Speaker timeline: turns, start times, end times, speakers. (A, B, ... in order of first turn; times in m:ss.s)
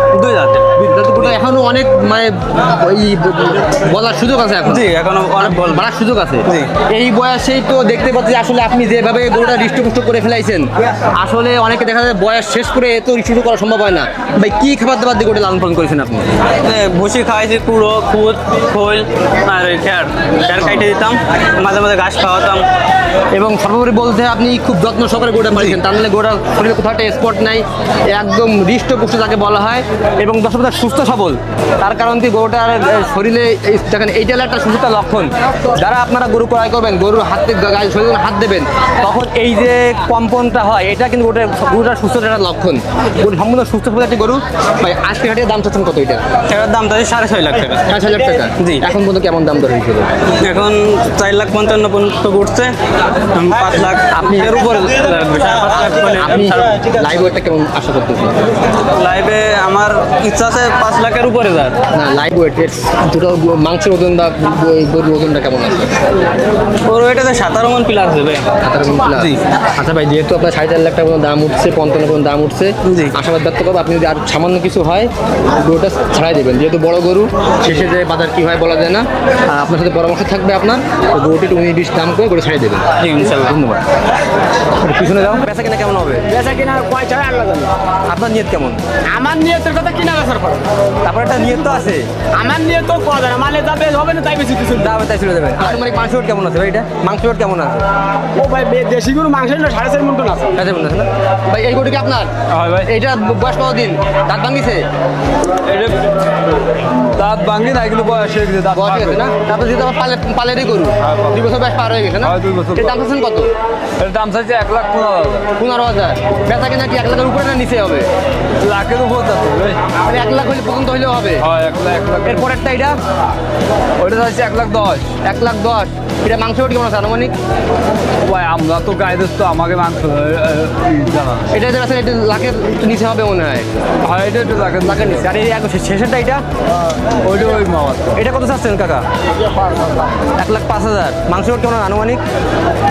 0:00.1-0:00.8 A
0:00.8-0:04.9 B
0:04.7-0:05.8 A
0:05.4-0:16.4 B
0:16.6-0:22.6 A
0:23.3-0:46.2 B
0:46.5-0:47.8 A
0:47.9-0:50.1 B
0:48.6-0:48.8 A
0:50.4-0:52.8 A
0:53.4-0:56.8 A
0:54.1-0:55.0 B
0:56.2-0:58.4 B
0:58.9-1:01.8 A
1:01.9-1:06.0 B
1:06.9-1:08.5 A
1:08.6-1:23.8 B
1:09.1-1:09.4 A
1:12.9-1:13.1 A
1:23.0-1:23.5 A
1:24.8-1:26.2 B
1:26.3-1:27.7 C
1:28.1-1:28.8 B
1:29.1-1:30.6 C
1:31.0-1:32.1 B
1:32.4-1:34.8 C
1:34.8-1:37.8 B
1:38.4-1:40.5 C
1:40.6-1:42.3 B
1:42.5-1:42.9 D
1:42.8-1:44.8 B
1:45.7-1:46.0 D
1:47.2-1:49.2 D
1:48.7-1:53.5 B
1:52.2-1:52.9 D
1:54.0-1:55.5 D
1:55.6-1:58.1 B
1:58.6-1:59.8 D
2:00.0-2:01.4 B
2:01.4-2:02.5 D
2:02.2-2:03.0 B
2:04.0-2:05.1 D
2:05.2-2:07.4 B
2:08.2-2:11.5 D
2:11.5-2:13.8 B
2:14.0-2:15.3 D
2:14.8-2:16.4 B
2:17.2-2:18.2 D
2:18.2-2:19.0 B
2:20.3-2:22.2 B